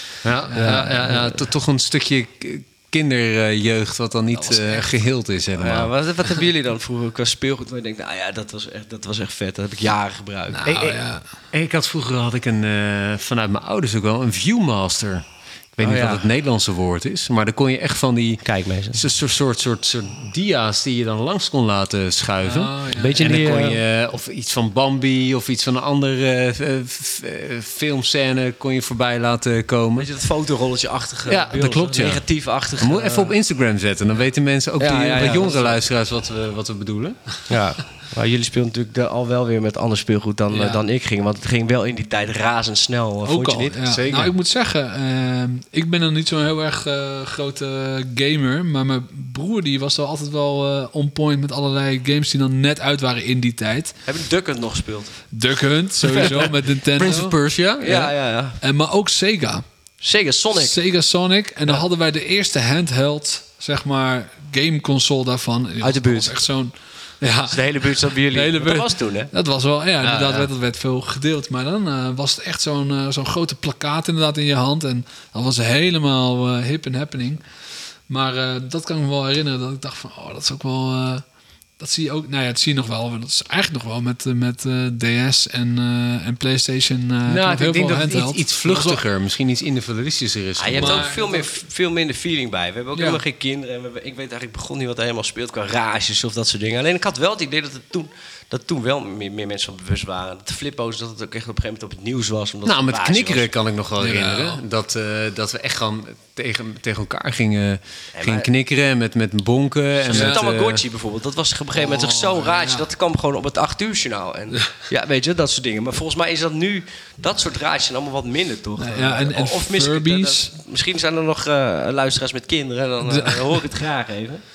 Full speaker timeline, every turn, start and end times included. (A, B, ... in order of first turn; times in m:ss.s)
0:00.2-0:05.9 A
0:00.5-0:01.1 B
0:00.5-0:01.4 C
0:04.4-0:04.8 B
0:05.6-0:10.8 C
0:10.5-0:11.2 B
0:10.6-0:15.2 A
0:15.8-0:30.1 A
0:15.8-0:16.3 C
0:18.4-0:19.0 C
0:22.4-0:23.4 B
0:23.0-0:23.8 C
0:30.0-0:33.3 C
0:31.3-0:32.2 A
0:32.8-0:37.3 A
0:34.8-0:35.8 C
0:37.5-0:43.8 C
0:40.5-0:40.8 B
0:43.3-0:54.0 B
0:43.9-0:44.3 A
0:54.1-0:55.2 C
0:55.3-0:57.4 B
0:56.0-0:56.5 C
0:56.9-0:58.1 A
0:57.8-0:58.6 C
0:58.6-0:59.6 B
1:00.0-1:00.8 C
1:00.5-1:17.4 B
1:05.8-1:06.3 C
1:07.5-1:09.3 C
1:10.1-1:10.5 C
1:18.1-1:21.2 B
1:21.8-1:29.0 B
1:27.3-1:31.1 A
1:30.6-1:43.5 C
1:30.8-1:31.6 B
1:33.0-1:33.2 B
1:42.6-1:50.8 A
1:44.0-1:44.6 B
1:48.2-1:48.5 C
1:50.1-2:04.4 C
1:50.1-1:50.4 B
1:51.8-1:52.8 B
1:58.8-2:00.5 B
2:03.0-2:03.6 B